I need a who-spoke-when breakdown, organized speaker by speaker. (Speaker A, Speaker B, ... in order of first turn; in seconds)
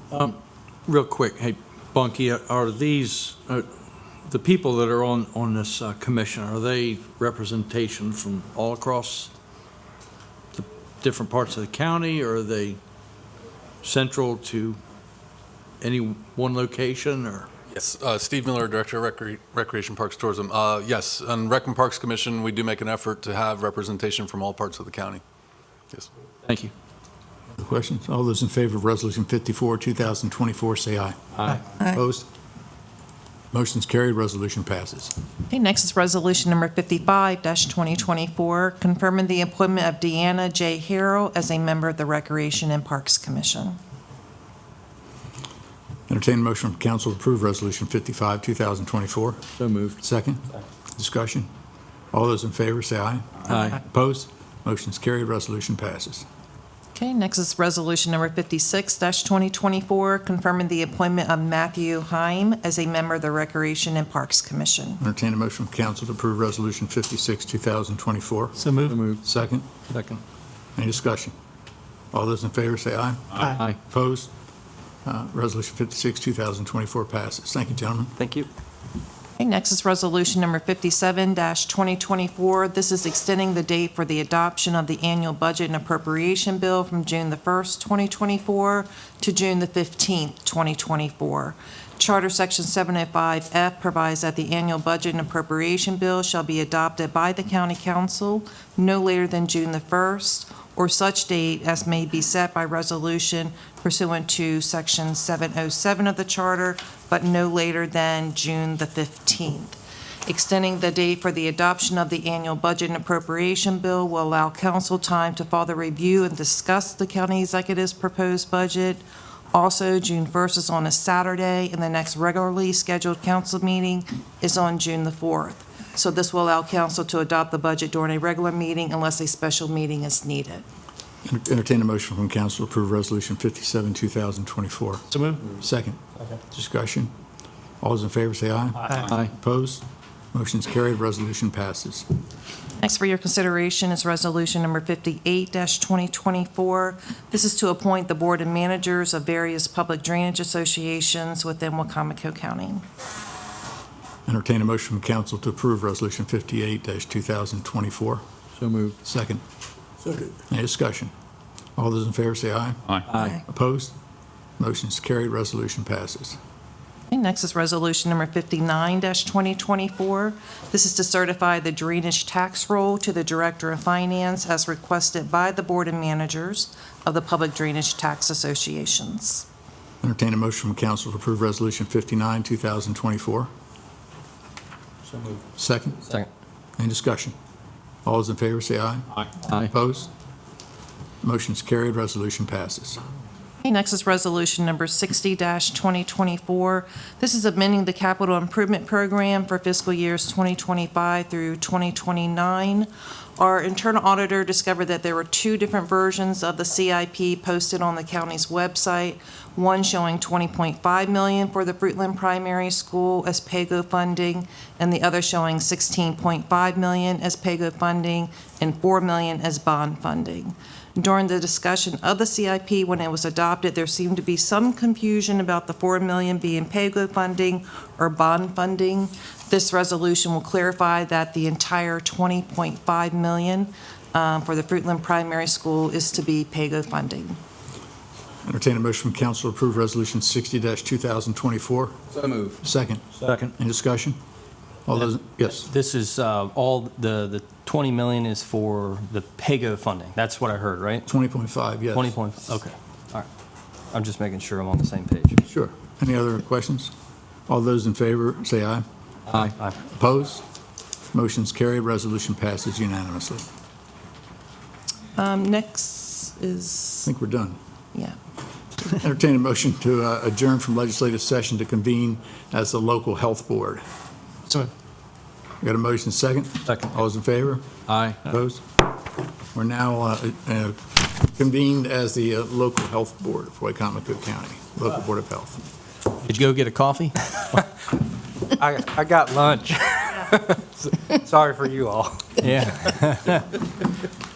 Speaker A: 0.1-3.7, 4.3-9.3, 10.5-12.8, 13.8-14.8, 15.8-17.5, 26.4-26.7, 49.6-50.0, 53.5-53.8, 68.8-69.2, 69.9-70.2, 73.4-73.8, 158.6-159.0, 160.1-160.3, 163.1-163.4, 242.2-242.5, 243.2-243.5, 259.3-259.6, 277.9-278.2
Speaker B: 17.7-25.2, 68.6-68.9
Speaker C: 27.6-32.3, 33.5-35.1, 46.1-49.4, 50.0-50.5, 51.0-51.5, 52.1-56.2, 65.0-68.6, 69.2-69.7, 70.8-71.3, 72.1-74.3, 75.0-78.1, 131.2-136.0, 136.5-137.1, 137.8-142.1, 154.3-158.2, 159.1-159.4, 160.5-161.1, 161.8-163.9, 164.6-166.4, 180.0-183.5, 185.6-186.0, 186.8-187.3, 188.1-189.1, 189.7-190.1, 191.2-193.0, 238.4-242.0, 242.6-243.0, 243.6-244.2, 244.9-245.7, 251.1-252.2, 255.4-256.9, 257.5-258.9, 259.9-260.4, 261.1-263.5, 267.1-267.6, 268.8-273.8, 275.6-277.6, 278.2-278.6, 279.6-285.6
Speaker D: 35.5-43.8, 57.0-65.0, 79.4-130.7, 142.8-152.8, 167.1-179.5, 193.6-237.4, 265.2-267.1
Speaker E: 78.2-78.5, 245.6-251.1, 251.9-253.3, 253.9-255.4, 286.2-287.2, 292.4-293.4
Speaker F: 288.6-292.4